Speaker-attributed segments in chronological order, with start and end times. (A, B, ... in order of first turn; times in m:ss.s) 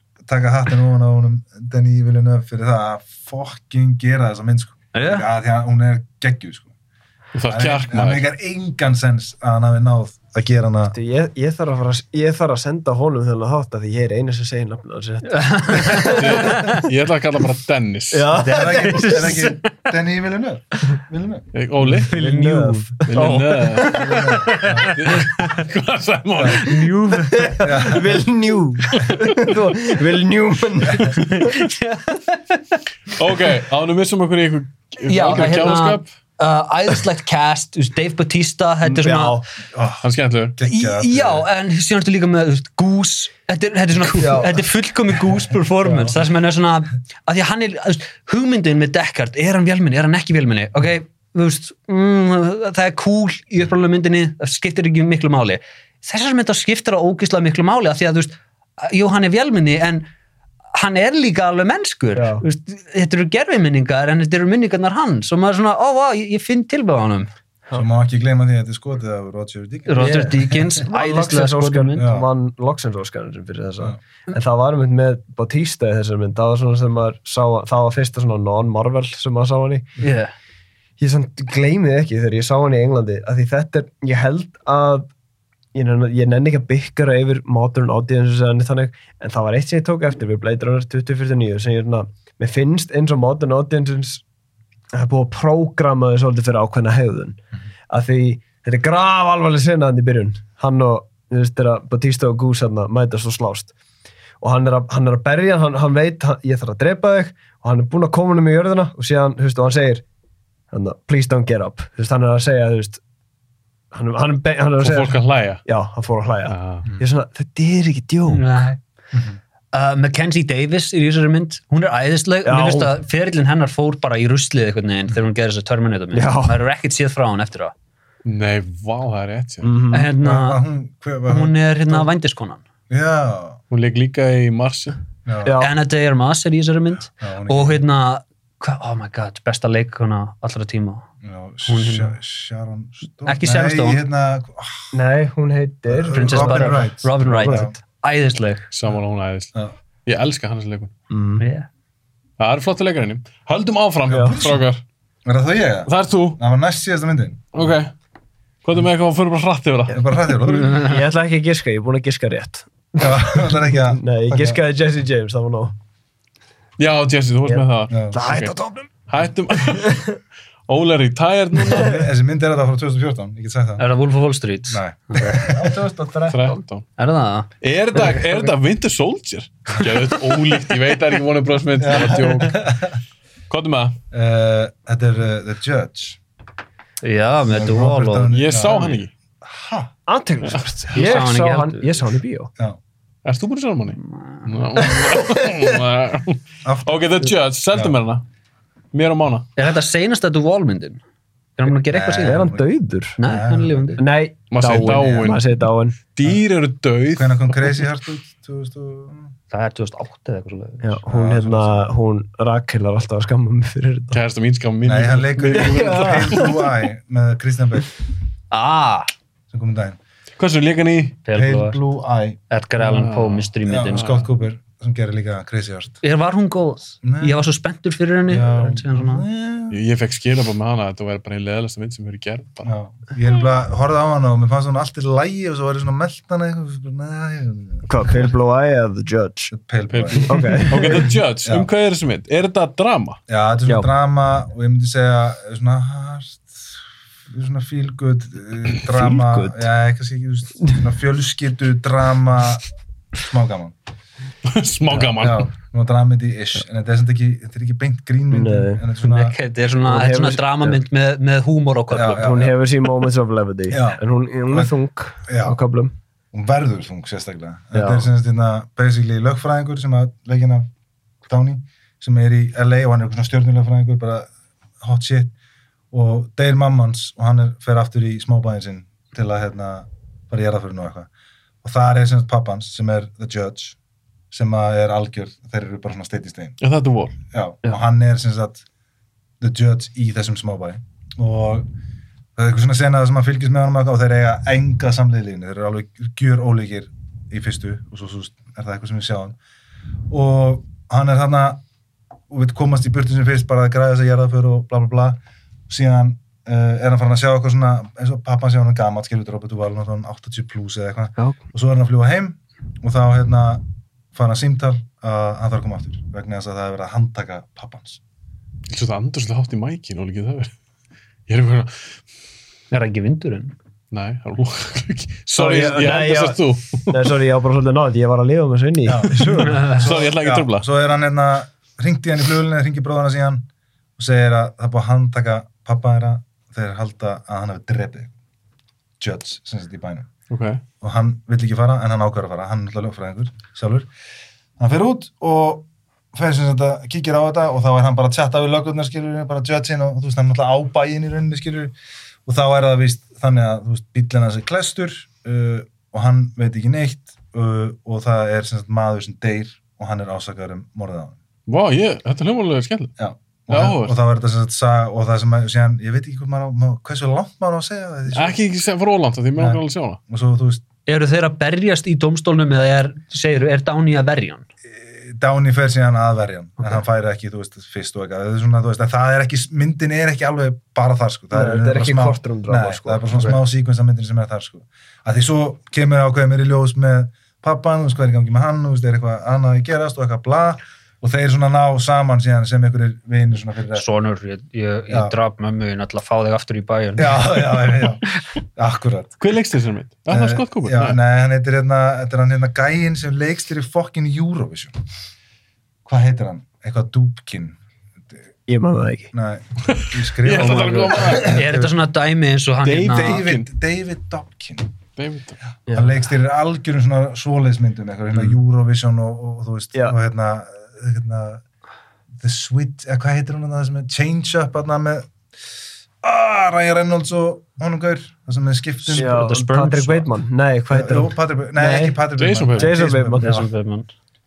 0:00.2-0:06.7 A
0:04.9-0:05.2 B
0:07.3-0:08.2 C
0:07.5-0:10.9 A
0:10.9-0:16.7 D
0:15.3-0:16.8 B
0:15.9-0:18.3 C
0:18.1-0:19.2 D
0:18.4-0:19.6 B
0:18.4-0:21.5 A
0:21.5-0:22.1 C
0:21.9-0:25.6 B
0:22.0-0:23.9 D
0:23.1-0:24.0 C
0:24.0-0:24.9 A
0:24.8-0:26.8 C
0:26.6-0:27.6 B
0:26.7-0:31.6 D
0:27.6-0:28.2 A
0:31.1-0:32.6 B
0:33.2-0:36.1 C
0:35.0-0:39.4 B
0:38.8-0:39.4 D
0:39.7-0:41.5 A
0:40.0-0:40.6 C
0:40.6-1:00.1 B
0:44.1-0:44.5 D
0:45.8-0:46.1 D
0:45.9-0:46.1 A
1:00.7-1:07.3 B
1:02.1-1:02.4 D
1:07.7-1:10.7 A
1:09.9-1:12.0 B
1:10.0-1:19.9 D
1:11.9-1:12.3 A
1:20.0-1:20.3 B
1:21.0-1:25.1 D
1:25.7-1:34.2 D
1:34.9-1:37.4 D
1:37.9-1:43.7 D
1:44.4-1:50.0 D
1:50.7-1:53.0 D
1:53.9-1:58.4 D
1:54.8-1:55.6 C
1:56.5-1:56.8 C
1:58.3-1:58.8 B
1:59.1-1:59.4 A
1:59.7-2:07.7 B
2:02.4-2:02.9 D
2:06.1-2:06.6 D
2:08.2-2:09.7 C
2:09.6-2:10.1 D
2:09.9-2:10.6 B
2:10.2-2:12.1 A
2:11.3-2:12.6 B
2:12.9-2:13.6 A
2:13.7-2:15.0 C
2:15.2-2:15.6 A
2:15.4-2:15.7 D
2:15.6-2:21.0 B
2:17.2-2:17.8 A
2:21.2-2:24.9 A
2:21.7-2:22.1 B
2:23.2-2:24.0 B
2:24.9-2:27.7 D
2:25.9-2:27.7 A
2:26.1-2:28.7 B
2:28.7-2:30.9 C
2:31.1-2:31.4 D
2:31.4-2:31.7 B
2:32.4-2:34.8 C
2:34.1-2:34.4 D
2:34.1-2:34.6 A
2:35.2-2:37.7 A
2:35.8-2:36.4 C
2:37.5-2:37.9 C
2:38.6-2:40.1 C
2:39.9-2:41.0 A
2:40.6-2:45.7 D
2:43.0-2:44.6 A
2:46.8-2:48.5 C
2:47.4-2:48.9 D
2:47.9-2:48.2 A
2:49.1-2:52.0 C
2:51.7-2:53.8 A
2:53.8-2:55.4 B
2:54.7-2:55.8 A
2:55.4-2:56.6 D
2:56.3-2:56.8 C
2:57.0-2:57.5 B
2:57.6-3:02.7 C
3:01.8-3:03.0 A
3:03.5-3:04.0 C
3:04.1-3:06.2 A
3:07.0-3:08.3 B
3:07.5-3:09.9 A
3:08.3-3:09.1 C
3:10.1-3:12.5 D
3:10.9-3:12.0 B
3:13.2-3:18.2 C
3:14.8-3:15.7 D
3:16.6-3:18.0 A
3:18.9-3:19.5 C
3:19.6-3:21.0 B
3:21.6-3:22.4 B
3:21.9-3:22.6 A
3:22.2-3:23.2 D
3:23.2-3:24.0 B
3:23.2-3:24.0 A
3:24.0-3:26.0 D
3:24.5-3:25.5 C
3:24.7-3:25.2 A
3:26.1-3:27.7 C
3:27.1-3:29.3 A
3:29.5-3:31.0 B
3:30.8-3:34.2 D
3:31.1-3:31.9 A
3:34.1-3:36.6 C
3:34.8-3:37.9 A
3:35.5-3:36.5 D
3:38.5-3:39.1 B
3:39.5-3:40.0 A
3:40.4-3:41.2 C
3:41.2-3:41.8 B
3:41.3-3:42.4 A
3:42.5-3:44.2 B
3:42.8-3:44.2 C
3:43.6-3:46.0 A
3:46.0-3:49.2 B
3:47.0-3:47.4 A
3:48.3-3:49.8 A
3:49.7-3:52.7 C
3:52.6-3:57.9 A
3:57.9-3:59.5 D
3:59.5-4:00.6 A
3:59.9-4:03.2 C
4:00.3-4:01.1 D
4:03.3-4:12.6 A
4:08.9-4:09.6 D
4:13.2-4:13.7 A
4:14.4-4:15.5 C
4:14.9-4:19.4 A
4:18.3-4:18.8 D
4:19.0-4:22.4 B
4:19.8-4:20.8 D
4:21.9-4:22.5 A
4:22.1-4:25.9 D
4:23.7-4:24.7 A
4:25.3-4:25.6 A
4:26.3-4:30.7 A
4:27.7-4:28.0 D
4:31.3-4:34.3 A
4:34.8-4:35.3 A
4:35.9-4:41.1 A
4:41.6-4:43.8 A
4:44.3-4:46.6 A
4:46.6-4:47.2 C
4:47.3-4:48.6 A
4:49.4-4:51.7 A
4:52.4-4:59.4 A
5:00.1-5:01.6 A
5:02.3-5:13.6 A
5:14.1-5:18.0 A
5:18.7-5:20.5 C
5:21.3-5:21.8 C
5:22.7-5:23.5 B
5:23.9-5:27.0 C
5:25.3-5:29.7 D
5:28.8-5:33.4 A
5:29.4-5:30.7 C
5:29.5-5:29.8 B
5:34.0-5:38.1 A
5:39.0-5:40.1 A
5:40.3-5:40.6 C
5:40.8-5:43.9 A
5:44.6-5:51.7 A
5:52.2-6:01.2 A
6:01.5-6:02.9 C
6:03.0-6:08.4 A
6:03.5-6:04.0 C
6:08.1-6:10.0 C
6:09.4-6:10.6 A
6:10.8-6:14.4 B
6:14.6-6:33.8 A
6:21.3-6:23.3 D
6:33.7-6:37.9 B
6:34.9-6:35.1 A
6:37.0-6:39.2 A
6:39.2-6:41.0 C
6:40.1-6:44.7 A
6:45.8-6:47.6 A
6:48.5-6:49.1 D
6:49.1-6:51.8 A
6:49.7-6:51.4 C
6:50.4-6:53.2 B
6:52.6-6:53.5 C
6:52.9-6:54.7 A
6:55.0-6:55.4 C
6:55.7-6:56.0 D
6:55.7-7:01.4 A
7:02.2-7:05.1 A
7:06.0-7:09.2 A
7:08.9-7:10.1 B
7:09.0-7:12.0 D
7:10.7-7:13.5 A
7:12.2-7:12.7 C
7:12.5-7:13.4 D
7:13.2-7:13.9 B